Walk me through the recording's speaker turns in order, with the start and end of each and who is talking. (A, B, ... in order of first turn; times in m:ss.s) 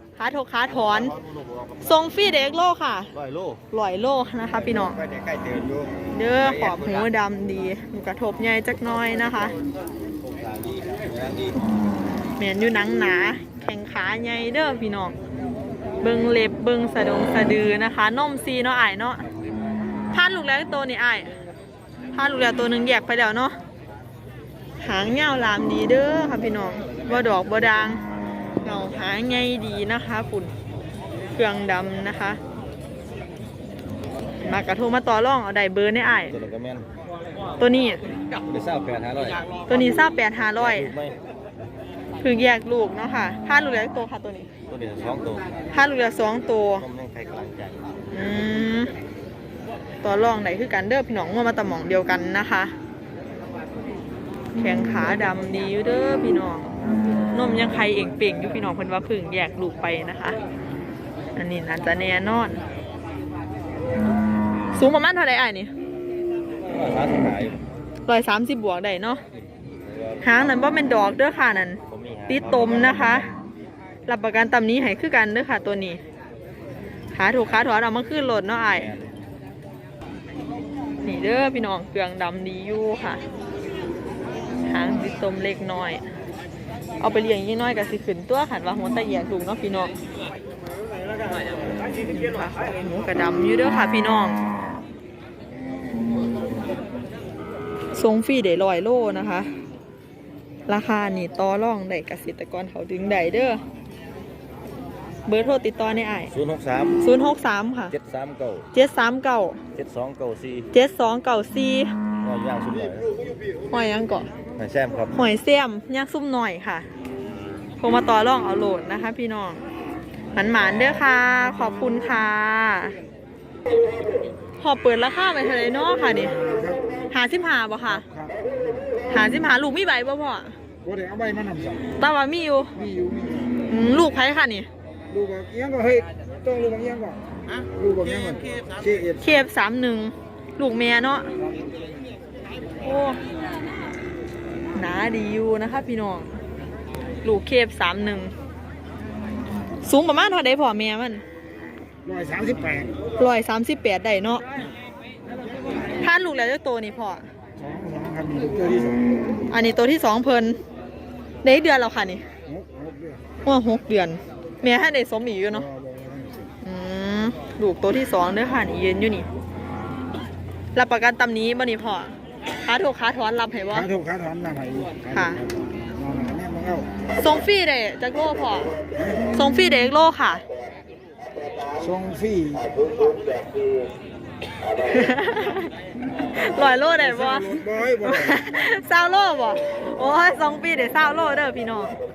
0:00.2-0:01.2 A
0:01.2-0:01.7 B
0:01.8-0:03.1 A
0:03.1-0:03.6 B
0:03.7-0:05.0 A
0:04.6-0:07.1 B
0:06.1-0:09.5 A
0:10.4-0:11.5 B
0:12.3-0:15.2 A
0:16.0-0:19.2 A
0:20.1-0:21.3 A
0:22.1-0:23.6 A
0:24.8-0:28.0 A
0:28.6-0:30.5 A
0:31.3-0:32.4 A
0:34.4-0:36.3 A
0:36.3-0:36.9 B
0:37.6-0:38.0 A
0:38.5-0:39.5 B
0:39.7-0:41.0 A
0:40.6-0:41.2 B
0:42.2-0:44.5 A
0:44.7-0:45.6 B
0:45.7-0:46.9 A
0:46.8-0:47.9 B
0:48.1-0:48.9 A
0:50.0-0:52.7 A
0:54.5-0:56.7 A
0:57.3-1:00.4 A
1:01.4-1:02.6 A
1:04.7-1:05.7 A
1:06.7-1:07.6 B
1:08.1-1:09.2 A
1:10.2-1:13.2 A
1:11.9-1:13.2 B
1:14.1-1:16.0 A
1:17.1-1:18.9 A
1:18.7-1:19.1 B
1:21.0-1:23.2 A
1:24.6-1:26.0 A
1:27.0-1:29.9 A
1:32.1-1:34.4 A
1:37.9-1:39.5 A
1:40.7-1:43.6 A
1:45.3-1:46.3 A
1:46.3-1:47.0 B
1:47.0-1:47.9 A
1:47.9-1:48.6 B
1:48.7-1:49.6 A
1:49.7-1:50.7 B
1:50.7-1:51.9 A
1:52.2-1:53.1 B
1:53.7-1:54.3 A
1:54.6-1:55.2 B
1:55.1-1:56.9 A
1:57.8-1:59.6 A
2:00.3-2:03.0 A
2:04.6-2:06.3 A
2:06.3-2:06.8 C
2:07.1-2:08.0 A
2:07.9-2:09.0 C
2:09.1-2:10.5 A
2:10.8-2:11.9 C
2:12.0-2:12.8 A
2:12.8-2:13.5 C
2:13.7-2:14.7 A
2:15.1-2:19.3 C
2:19.2-2:21.3 A
2:22.8-2:23.2 A
2:24.7-2:26.4 A
2:27.2-2:28.3 A
2:29.8-2:31.2 A
2:32.0-2:33.0 C
2:33.2-2:34.4 A
2:36.0-2:37.3 A
2:37.6-2:39.1 C
2:39.5-2:40.6 A
2:41.4-2:42.2 A
2:42.4-2:43.2 C
2:43.4-2:45.7 A
2:45.7-2:46.4 C
2:46.6-2:49.3 A
2:50.7-2:53.9 A
2:53.7-2:56.9 C
2:55.1-2:55.4 A
2:57.2-2:58.7 A
2:59.3-3:00.4 A
3:01.8-3:02.9 C
3:04.8-3:05.7 A
3:06.3-3:11.9 A
3:07.0-3:08.4 C